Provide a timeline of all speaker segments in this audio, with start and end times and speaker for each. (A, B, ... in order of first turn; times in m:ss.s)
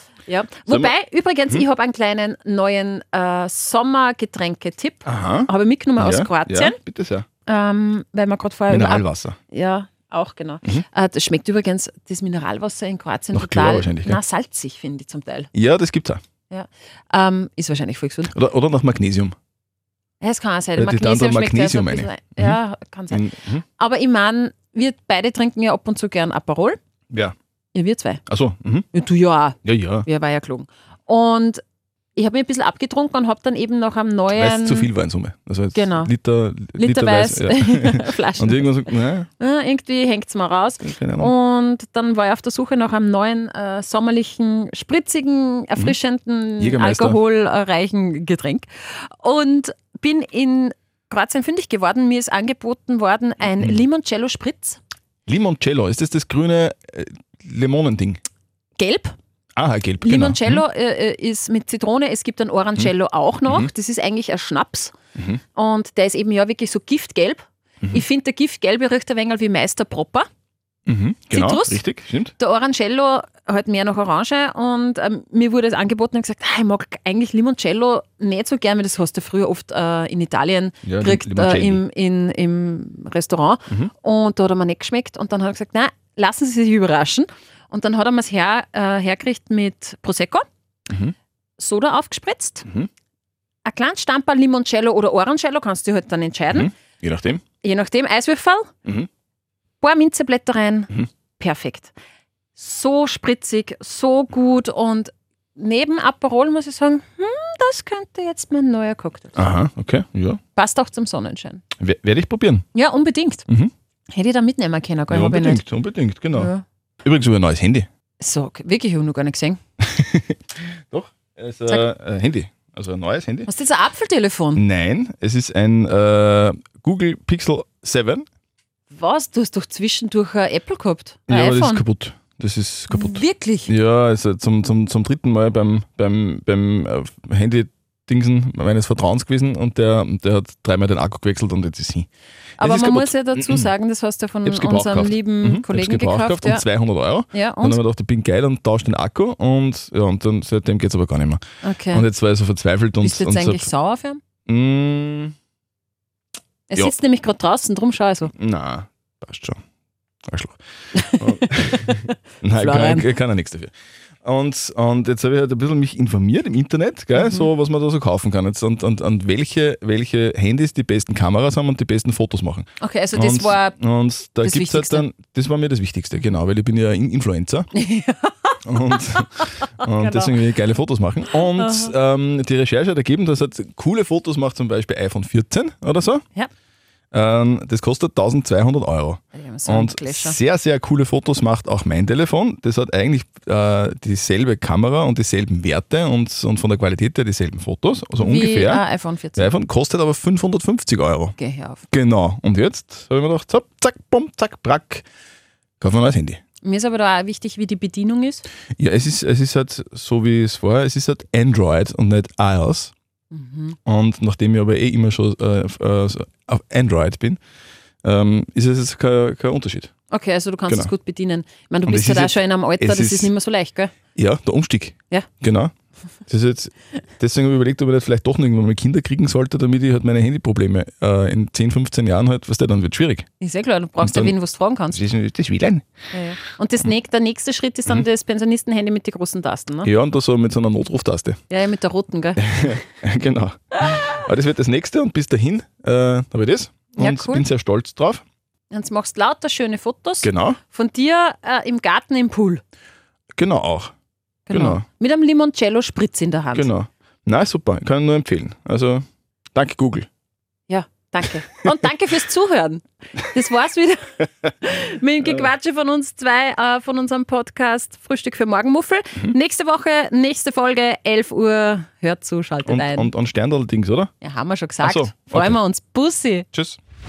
0:00.3-0:06.8 A
0:05.0-0:07.2 B
0:07.4-0:15.5 A
0:08.7-0:09.4 B
0:13.3-0:14.2 B
0:15.5-0:16.2 B
0:16.5-0:18.3 A
0:18.3-0:19.3 B
0:20.2-0:26.8 A
0:20.8-0:22.6 B
0:23.1-0:23.6 B
0:27.7-0:28.2 A
0:28.3-0:28.9 B
0:28.9-0:31.6 A
0:29.6-0:30.0 B
0:32.2-0:34.9 A
0:34.3-0:39.3 B
0:35.7-0:36.1 A
0:36.8-0:54.8 A
0:40.8-0:41.3 B
0:46.6-0:47.2 B
0:55.3-0:58.2 B
0:58.8-0:59.1 A
0:59.6-1:00.6 B
1:00.0-1:04.9 A
1:05.2-1:05.4 B
1:05.5-1:10.3 A
1:10.8-1:12.3 B
1:11.3-1:11.8 A
1:12.4-1:30.4 A
1:20.8-1:21.8 B
1:30.9-1:31.1 B
1:31.6-1:32.7 A
1:33.6-1:36.7 A
1:36.5-1:37.4 B
1:37.6-1:38.7 A
1:39.8-1:41.9 A
1:42.6-1:49.5 A
1:49.3-1:50.4 B
1:50.5-1:51.6 A
1:51.8-1:52.6 B
1:52.7-1:53.4 A
1:54.1-1:55.6 A
1:55.1-1:56.5 B
1:56.3-1:56.6 A
1:57.0-1:57.9 B
1:58.2-1:59.6 A
1:59.8-2:03.5 B
2:03.4-2:04.6 A
2:04.5-2:08.2 B
2:08.9-2:11.8 A
2:11.3-2:22.1 B
2:12.9-2:13.7 A
2:22.6-2:26.6 A
2:22.6-2:23.7 B
2:24.4-2:33.7 B
2:27.3-2:27.8 A
2:31.6-2:32.1 A
2:33.0-2:34.2 A
2:34.5-2:35.3 B
2:36.7-2:38.3 A
2:38.3-2:39.6 B
2:40.3-2:40.6 B
2:40.9-2:43.1 A
2:41.2-2:43.7 B
2:44.2-2:57.7 B
2:47.1-2:47.5 A
2:52.8-2:53.8 A
2:54.4-2:55.0 A
2:57.7-3:00.4 A
2:58.6-3:06.2 B
3:01.3-3:01.9 A
3:07.1-3:18.8 B
3:09.3-3:10.4 A
3:18.2-3:19.5 A
3:19.4-3:21.4 B
3:21.4-3:21.8 A
3:21.9-3:25.0 B
3:25.8-3:26.4 B
3:26.6-3:28.4 A
3:28.8-3:32.9 B
3:33.3-3:33.8 A
3:33.8-3:37.4 B
3:38.0-3:39.9 B
3:40.1-3:43.9 A
3:41.8-3:43.3 B
3:44.2-3:45.7 B
3:46.3-3:53.3 B
3:53.4-3:55.0 A
3:54.0-3:54.3 B
3:54.9-3:55.9 B
3:56.1-3:59.9 A
3:59.8-4:01.4 B
4:01.5-4:02.7 A
4:02.4-4:08.2 B
4:07.0-4:07.4 A
4:08.7-4:12.6 A
4:10.2-4:10.6 B
4:13.3-4:13.9 B
4:14.5-4:16.7 A
4:14.5-4:14.8 B
4:16.5-4:20.1 B
4:20.7-4:33.1 A
4:32.6-4:34.1 B
4:34.2-4:36.5 A
4:34.8-4:35.6 B
4:36.5-4:36.8 B